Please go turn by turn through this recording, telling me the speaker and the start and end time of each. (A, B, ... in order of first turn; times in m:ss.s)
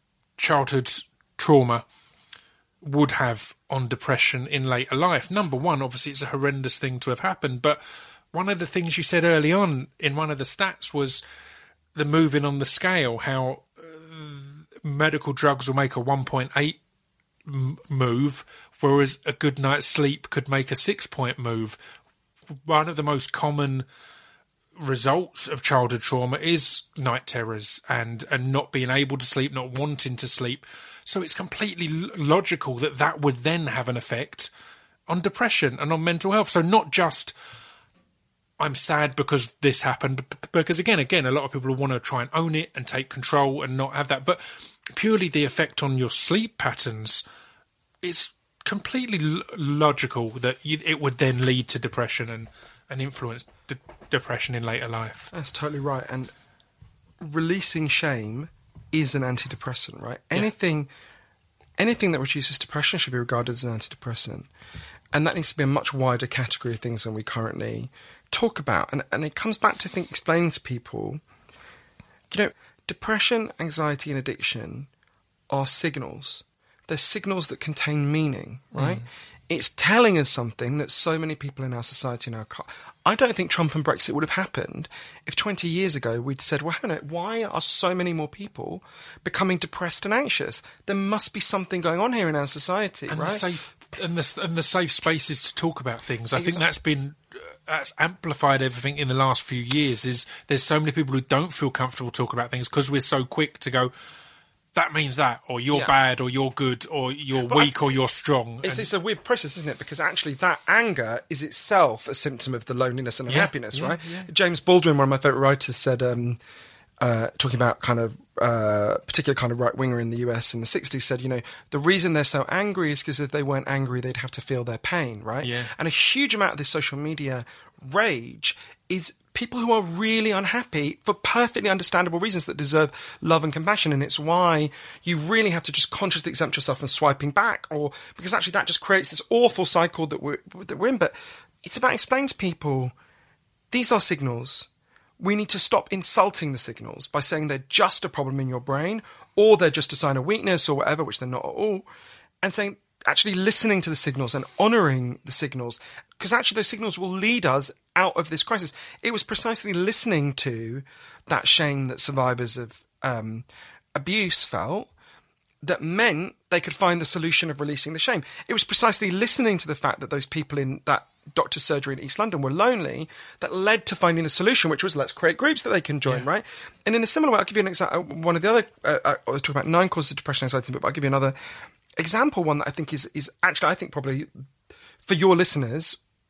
0:00.4-0:01.8 A
0:02.8-0:11.2 A
0:12.0-0:16.8 A
0:17.4-0:21.8 A
0:22.6-0:23.8 A
0:24.8-0:34.5 A
0:35.1-0:37.3 A
0:38.6-0:47.2 A
0:48.0-0:55.3 A
0:55.3-0:56.3 B
0:57.2-1:00.9 B
1:01.8-1:04.5 B
1:05.1-1:11.2 B
1:12.3-1:14.9 B
1:15.5-1:33.4 B
1:18.7-1:19.0 A
1:33.1-1:43.9 A
1:36.4-1:36.6 B
1:44.7-1:48.9 A
1:47.4-1:47.7 B
1:48.6-1:56.4 B
1:53.3-1:54.3 A
1:57.0-2:22.9 B
2:05.4-2:05.7 A
2:23.7-2:24.7 B
2:25.2-2:31.9 B
2:32.4-2:44.9 B
2:45.6-3:01.4 B
3:02.0-3:04.4 B
3:05.0-3:06.0 B